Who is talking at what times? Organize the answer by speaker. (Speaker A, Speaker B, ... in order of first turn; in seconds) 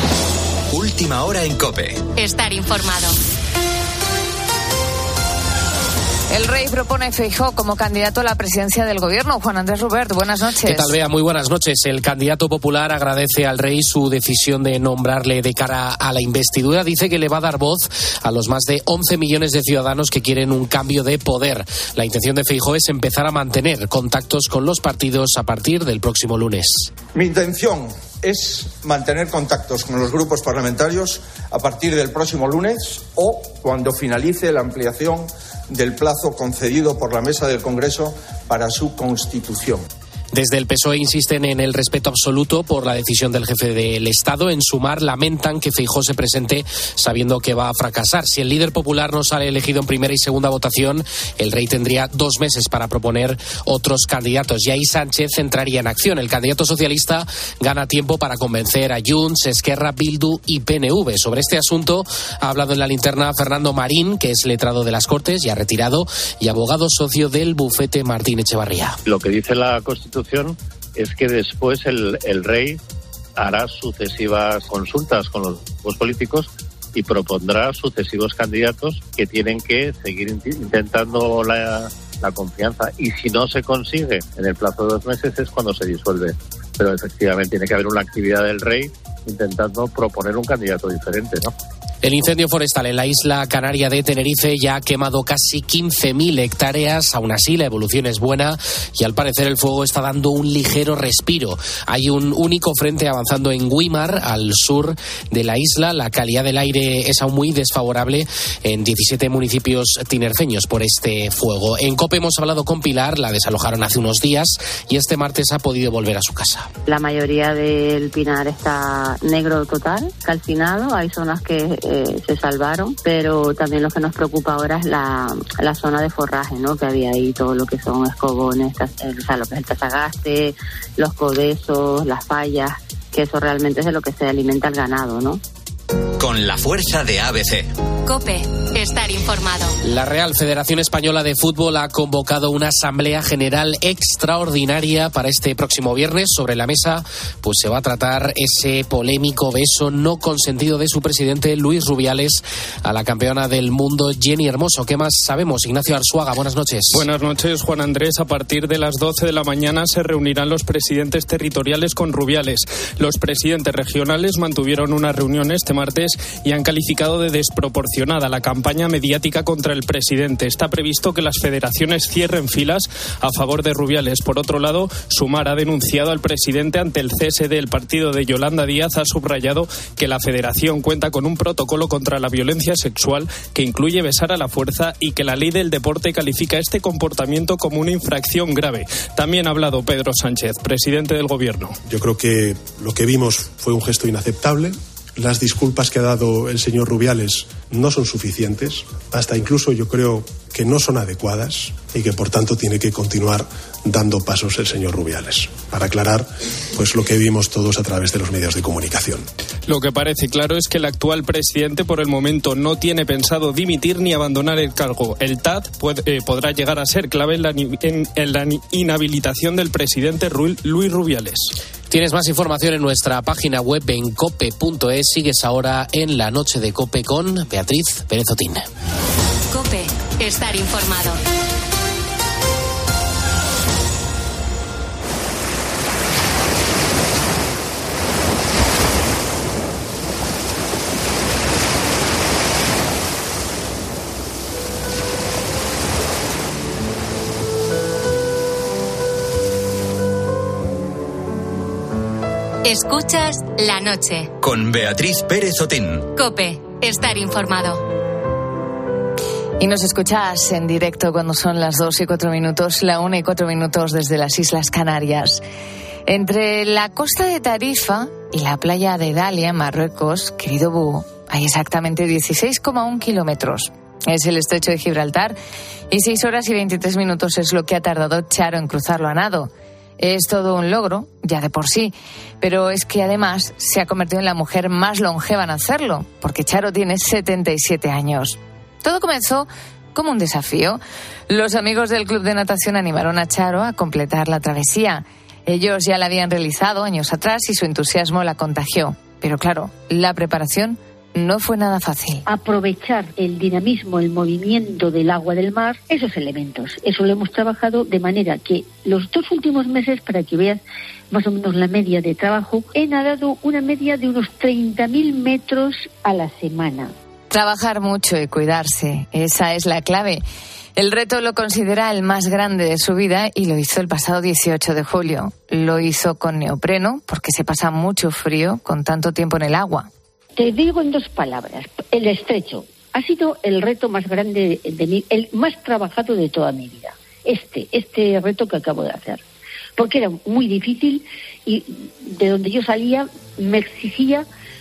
Speaker A: 0.7-2.1, 136.2-137.7, 254.4-256.1
Speaker B: 2.1-3.1, 138.1-139.7, 229.5-231.2, 252.6-254.3, 256.1-257.9
Speaker C: 6.3-10.9, 259.6-265.4, 266.1-275.4, 275.9-302.2, 317.3-320.2, 320.8-329.9
Speaker D: 10.7-26.9, 40.3-69.0, 92.0-116.7, 139.8-157.1, 221.9-228.6
Speaker E: 27.1-39.8
Speaker F: 69.0-72.8, 73.4-91.5
Speaker G: 116.8-135.4
Speaker H: 156.9-191.8, 209.7-221.5
Speaker I: 191.8-209.3
Speaker J: 302.3-316.9, 330.4-339.2, 339.8-344.2